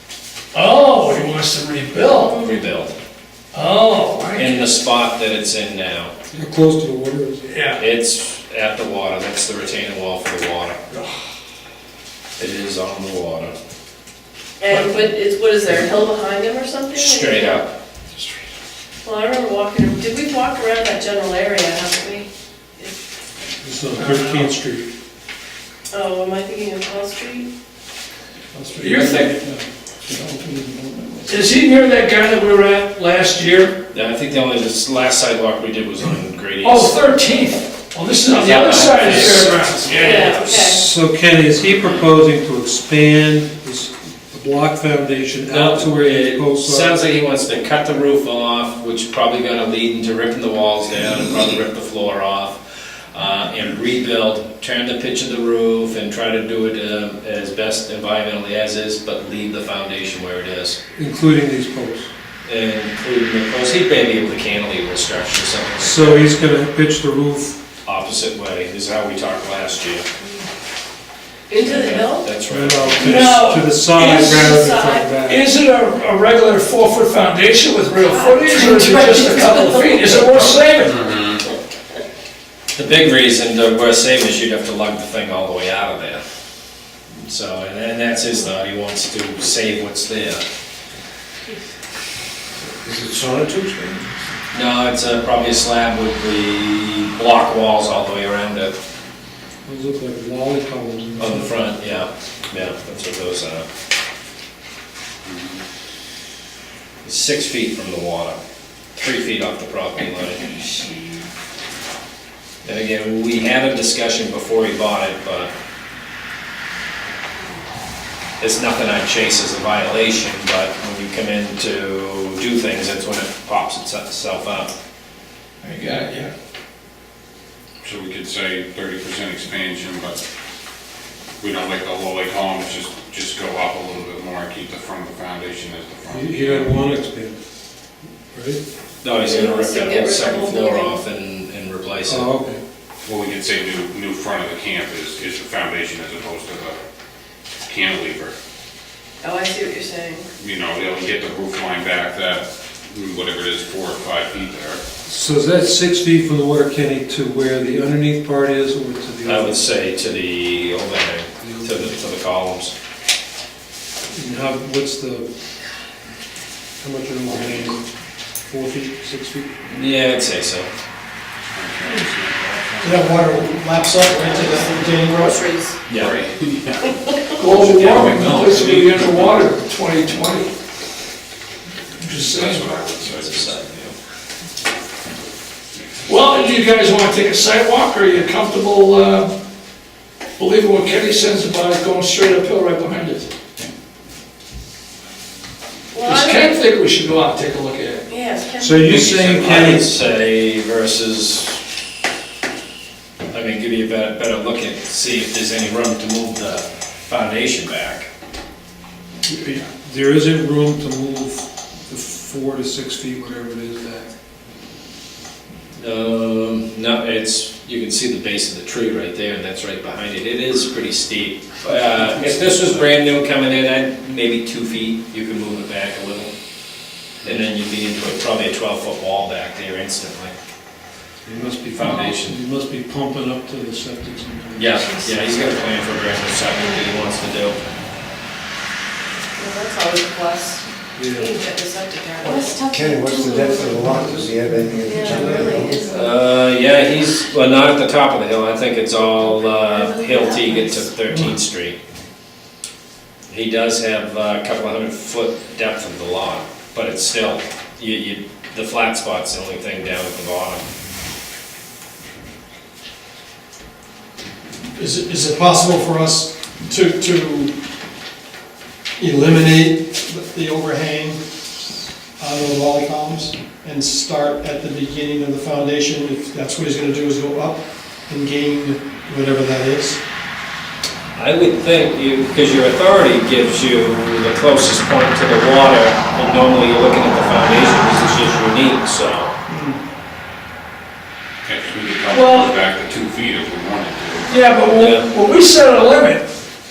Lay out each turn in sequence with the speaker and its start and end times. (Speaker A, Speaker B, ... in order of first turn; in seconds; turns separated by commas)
Speaker A: 0.5-2.4, Speaker B: 2.2-3.0, Speaker A: 3.5-4.7, Speaker B: 4.4-6.1, Speaker C: 6.3-7.5, Speaker A: 7.5-7.8, Speaker B: 7.8-10.8, Speaker B: 12.4-13.5, Speaker D: 14.6-17.6, Speaker B: 14.7-15.1, Speaker B: 16.9-17.7, Speaker D: 19.0-23.0, Speaker C: 23.6-24.9, Speaker A: 24.0-24.5, Speaker D: 25.9-27.5, Speaker C: 28.6-31.3, Speaker A: 28.8-29.4, Speaker A: 31.3-33.8, Speaker B: 33.9-37.0, Speaker A: 36.6-40.4, Speaker B: 38.3-40.8, Speaker D: 40.0-40.8, Speaker C: 40.3-47.0, Speaker B: 45.5-60.8, Speaker C: 61.0-62.1, Speaker B: 62.5-66.3, Speaker C: 65.8-67.6, Speaker B: 67.8-70.1, Speaker D: 71.5-72.2, Speaker B: 71.5-73.2, Speaker C: 72.5-75.4, Speaker A: 73.0-74.6, Speaker D: 74.5-75.2, Speaker A: 75.2-81.0, Speaker D: 78.1-79.3, Speaker E: 78.5-78.9, Speaker F: 80.4-81.5, Speaker B: 82.8-86.2, Speaker B: 87.2-90.4, Speaker C: 93.2-93.5, Speaker B: 94.5-98.8, Speaker C: 99.7-101.6, Speaker B: 101.2-103.7, Speaker F: 105.2-105.6, Speaker B: 107.0-108.4, Speaker B: 109.0-110.6, Speaker B: 112.6-115.5, Speaker B: 118.4-124.7, Speaker A: 125.6-126.3, Speaker F: 127.8-130.2, Speaker F: 131.4-136.8, Speaker C: 136.1-137.4, Speaker C: 138.3-138.6, Speaker B: 139.0-142.3, Speaker D: 139.2-141.0, Speaker C: 142.1-142.6, Speaker F: 143.0-146.8, Speaker F: 147.7-148.3, Speaker D: 149.2-150.2, Speaker F: 150.4-154.8, Speaker C: 155.1-159.6, Speaker B: 159.3-162.7, Speaker C: 161.4-161.9, Speaker C: 164.1-165.3, Speaker C: 166.8-167.8, Speaker C: 168.5-169.6, Speaker B: 169.7-170.7, Speaker F: 171.4-173.4, Speaker E: 172.8-175.4, Speaker F: 174.0-174.2, Speaker D: 174.2-175.8, Speaker G: 174.3-174.8, Speaker F: 175.9-179.4, Speaker A: 177.4-180.5, Speaker A: 182.0-182.7, Speaker F: 182.2-183.6, Speaker B: 183.0-183.9, Speaker A: 186.1-189.3, Speaker A: 190.4-193.3, Speaker D: 195.9-196.5, Speaker A: 196.0-198.1, Speaker D: 198.1-198.9, Speaker C: 198.6-199.9, Speaker B: 198.8-201.6, Speaker B: 203.3-208.1, Speaker C: 209.3-214.1, Speaker B: 215.8-226.3, Speaker B: 227.2-230.3, Speaker C: 231.3-235.1, Speaker B: 231.8-232.4, Speaker B: 234.6-237.6, Speaker D: 239.4-240.5, Speaker C: 240.9-241.3, Speaker D: 241.2-242.7, Speaker G: 242.2-245.8, Speaker E: 242.3-242.7, Speaker C: 243.2-245.6, Speaker E: 244.9-246.1, Speaker D: 245.1-245.8, Speaker B: 245.9-251.8, Speaker B: 253.3-260.7, Speaker E: 264.8-267.5, Speaker E: 269.0-271.2, Speaker E: 272.2-280.0, Speaker B: 281.2-289.3, Speaker F: 291.4-294.4, Speaker A: 292.1-292.6, Speaker A: 294.3-296.3, Speaker B: 294.7-295.1